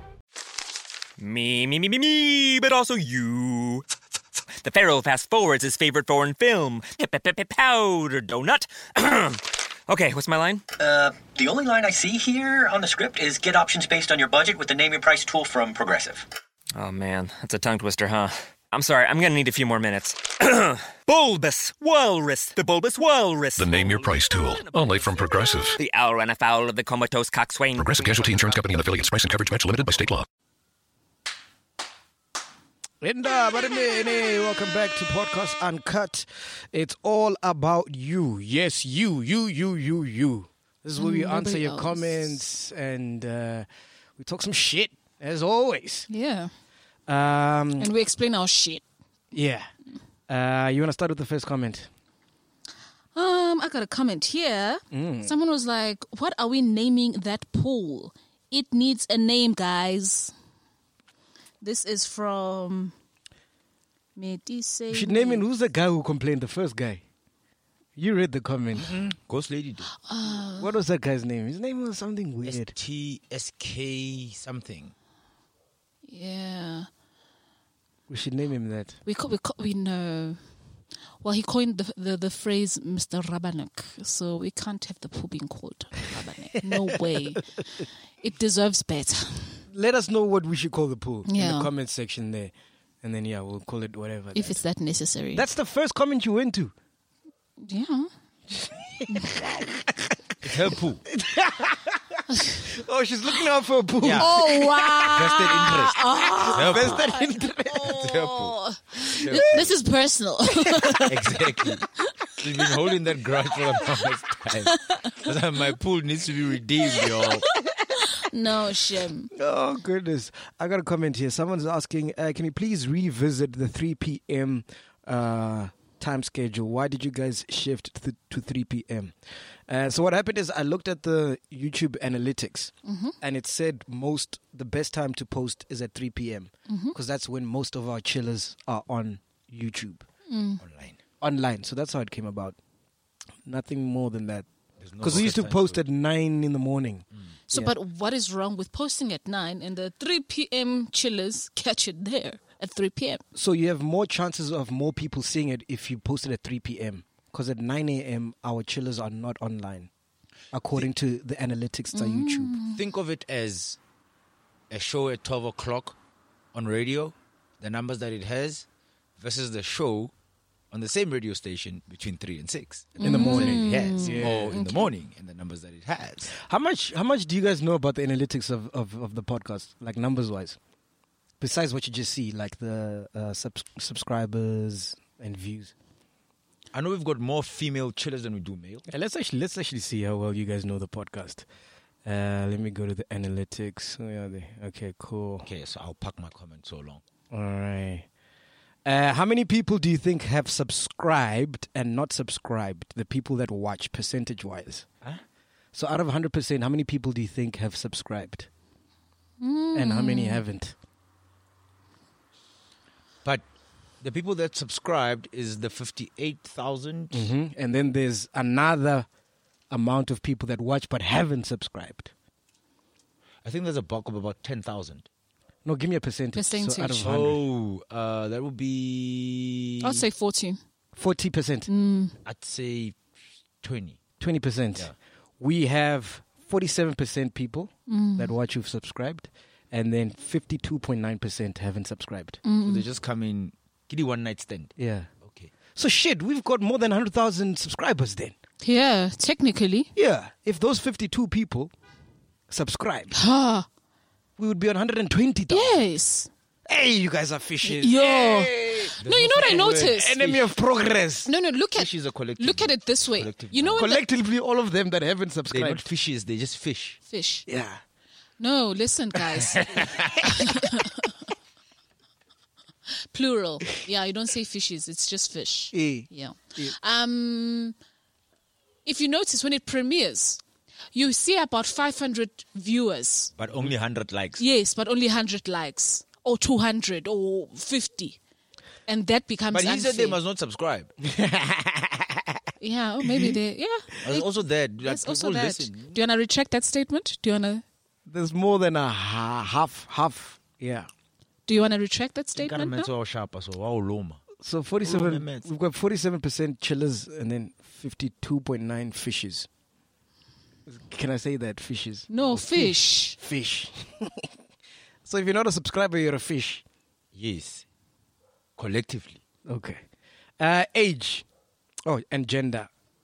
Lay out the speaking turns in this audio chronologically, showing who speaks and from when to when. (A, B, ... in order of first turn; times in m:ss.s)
0:01.2-0:03.8 A
0:04.6-0:10.6 A
0:10.8-0:16.3 B
0:16.7-0:28.8 A
0:23.6-0:25.8 C
0:27.8-0:30.2 C
0:33.0-0:46.1 D
0:41.0-0:42.4 E
0:46.1-0:46.5 E
0:47.1-0:47.9 D
0:47.8-0:48.8 E
0:49.3-0:49.7 D
0:50.3-0:51.9 D
0:53.1-1:00.3 E
0:54.9-0:55.3 D
1:01.6-1:02.9 E
1:04.2-1:05.4 E
1:04.9-1:07.0 D
1:08.0-1:09.0 D
1:08.8-1:09.9 F
1:10.0-1:10.7 E
1:10.6-1:12.7 D
1:12.4-1:14.9 F
1:16.0-1:16.9 E
1:18.1-1:19.0 D
1:19.0-1:20.4 E
1:21.2-1:29.6 E
1:29.7-1:34.6 D
1:31.2-1:31.7 E
1:34.3-1:35.4 E
1:35.3-1:36.7 D
1:37.6-1:38.1 E
1:38.5-1:45.0 D
1:39.1-1:39.3 E
1:40.4-1:41.0 F
1:42.3-1:42.6 E
1:44.0-1:44.3 F
1:44.1-1:51.4 E
1:45.0-1:46.0 F
1:46.3-1:48.0 D
1:46.5-1:47.0 F
1:47.8-1:49.8 F
1:51.0-1:57.5 F
1:57.9-1:59.3 E
1:59.3-2:20.0 D
2:12.8-2:13.1 E
2:16.7-2:16.9 E
2:20.3-2:20.6 E
2:20.6-2:21.0 F
2:21.2-2:22.6 D
2:23.4-2:24.5 D
2:24.8-2:25.8 F
2:25.0-2:27.7 D
2:27.5-2:33.2 E
2:33.3-2:39.9 D
2:40.5-2:42.5 D
2:41.9-2:42.8 E
2:42.7-2:43.8 F
2:44.7-2:46.0 F
2:46.5-2:48.6 F
2:49.2-2:50.1 F
2:50.7-2:56.3 F
2:53.0-2:54.9 E
2:53.0-2:54.6 D
2:56.3-3:00.6 D
3:01.4-3:05.7 D
3:06.7-3:08.8 F
3:08.9-3:11.4 D
3:12.0-3:15.5 D
3:15.4-3:17.0 F
3:17.3-3:18.1 D
3:18.8-3:24.9 D
3:25.7-3:28.5 D
3:29.4-3:30.4 E
3:29.7-3:30.7 D
3:34.0-3:37.3 F
3:37.1-3:39.1 D
3:39.7-3:42.1 D
3:43.4-3:45.1 F
3:45.6-3:47.4 D
3:46.3-3:47.1 E
3:47.0-3:50.0 F
3:49.8-3:50.6 E
3:50.9-3:51.7 D
3:51.7-3:52.2 E
3:52.2-3:53.0 F
3:53.6-3:54.0 F
3:54.2-4:02.4 D
3:57.9-3:58.3 E
4:02.4-4:02.8 E
4:02.6-4:05.5 F
4:04.8-4:05.1 D
4:05.7-4:08.3 D
4:08.6-4:09.9 E
4:10.0-4:11.7 D
4:12.5-4:13.1 D
4:13.1-4:13.7 E
4:14.4-4:15.8 D
4:15.5-4:16.3 E
4:16.6-4:21.3 D
4:17.6-4:20.2 E
4:18.4-4:20.5 F
4:21.2-4:24.0 E
4:21.8-4:23.9 F
4:23.8-4:25.8 D
4:25.5-4:27.0 F
4:27.1-4:27.5 E
4:27.5-4:27.8 D
4:28.4-4:31.1 E
4:29.6-4:30.2 F
4:33.1-4:37.8 E
4:35.7-4:36.7 D
4:38.8-4:40.4 E
4:40.9-4:43.3 E
4:43.4-4:44.4 F
4:44.4-4:48.2 E
4:48.9-4:50.2 E
4:49.5-4:50.9 F
4:51.1-4:52.2 D
4:52.6-4:57.6 E
4:54.0-4:56.0 F
4:58.0-5:00.9 D
5:01.5-5:02.9 E
5:02.4-5:04.2 F
5:04.4-5:09.5 D
5:04.8-5:05.5 F
5:10.7-5:14.3 D
5:12.1-5:13.2 E
5:15.0-5:16.6 D
5:17.1-5:17.6 F
5:18.6-5:19.2 F
5:19.4-5:19.8 D
5:20.4-5:21.2 D
5:21.8-5:22.7 D